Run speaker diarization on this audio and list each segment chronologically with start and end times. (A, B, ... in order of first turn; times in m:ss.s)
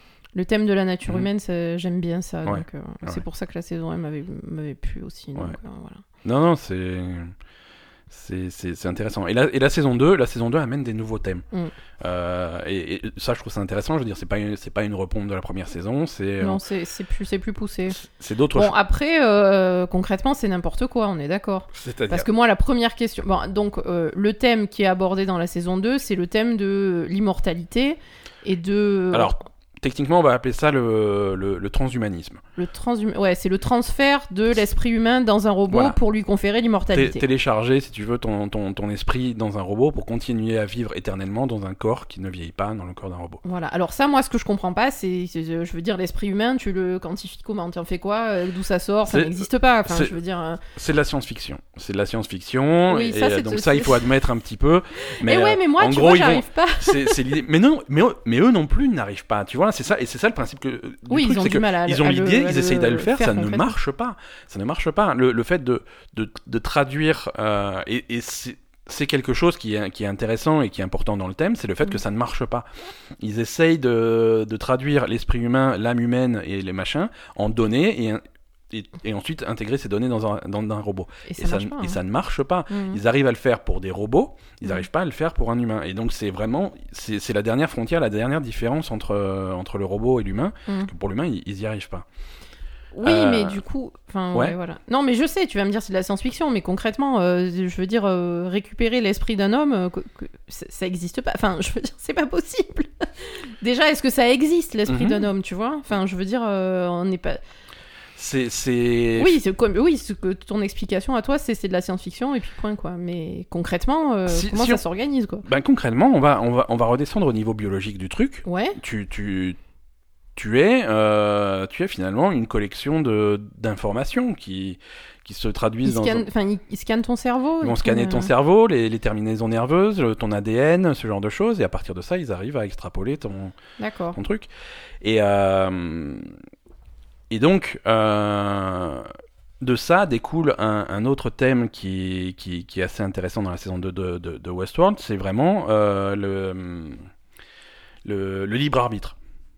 0:00.4-0:06.0 A
0:02.4-0:03.2 B
0:06.2-0:07.3 B
0:08.1-0:11.4 B
0:12.0-0:16.6 B
0:16.4-0:18.0 A
0:18.0-0:18.7 B
0:18.5-0:29.4 A
0:21.7-0:22.3 B
0:29.1-0:32.4 B
0:32.6-0:37.2 A
0:35.7-0:36.0 B
0:36.9-0:43.4 B
0:43.4-0:50.6 A
0:49.1-0:50.2 B
0:50.7-1:12.7 B
0:52.9-0:54.1 A
0:55.1-0:57.2 A
1:01.1-1:03.7 A
1:13.2-1:32.1 B
1:21.3-1:22.0 A
1:22.7-1:23.0 A
1:32.9-1:47.4 A
1:33.0-1:33.6 B
1:44.9-1:45.3 B
1:48.2-1:49.4 B
1:49.2-1:55.4 A
1:54.3-1:54.8 B
1:55.4-1:59.6 B
1:58.4-1:58.8 A
2:00.4-2:06.3 B
2:05.8-2:08.3 A
2:07.6-2:13.6 B
2:13.8-2:14.2 A
2:14.2-2:14.5 B
2:15.0-2:16.3 B
2:17.3-2:19.1 B
2:19.6-2:27.1 B
2:28.0-2:29.2 B